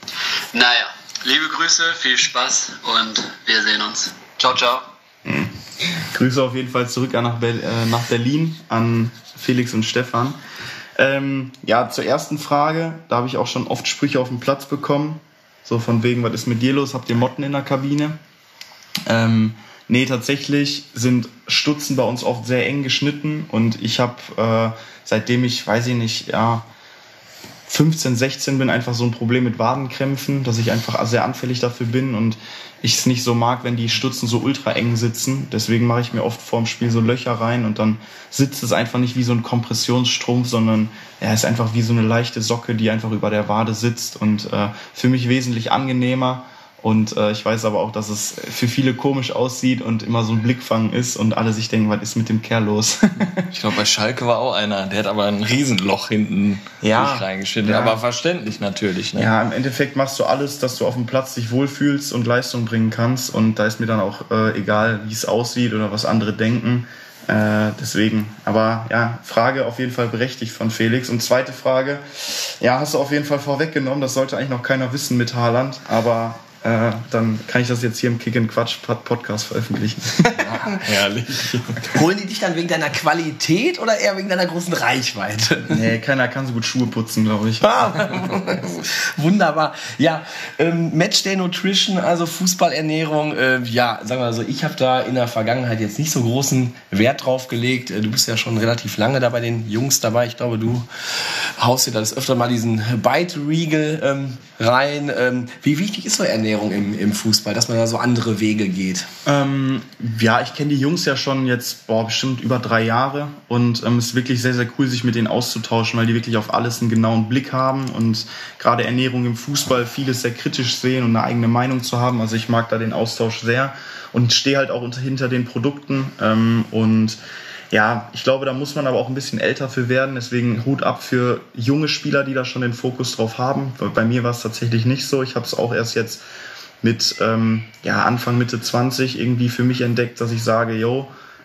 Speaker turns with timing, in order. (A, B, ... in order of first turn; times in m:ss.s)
0:00.5-0:04.8 A
0:05.2-0:10.4 B
0:11.0-0:18.2 B
0:19.1-0:26.6 B
0:27.7-0:53.5 B
0:53.5-0:59.3 C
0:56.8-0:58.0 B
0:59.1-1:20.4 B
1:20.3-1:21.9 C
1:21.8-1:25.8 D
1:25.7-1:27.8 B
1:27.6-1:49.1 D
1:49.2-2:07.2 B
2:07.7-2:16.2 B
2:16.8-2:21.1 B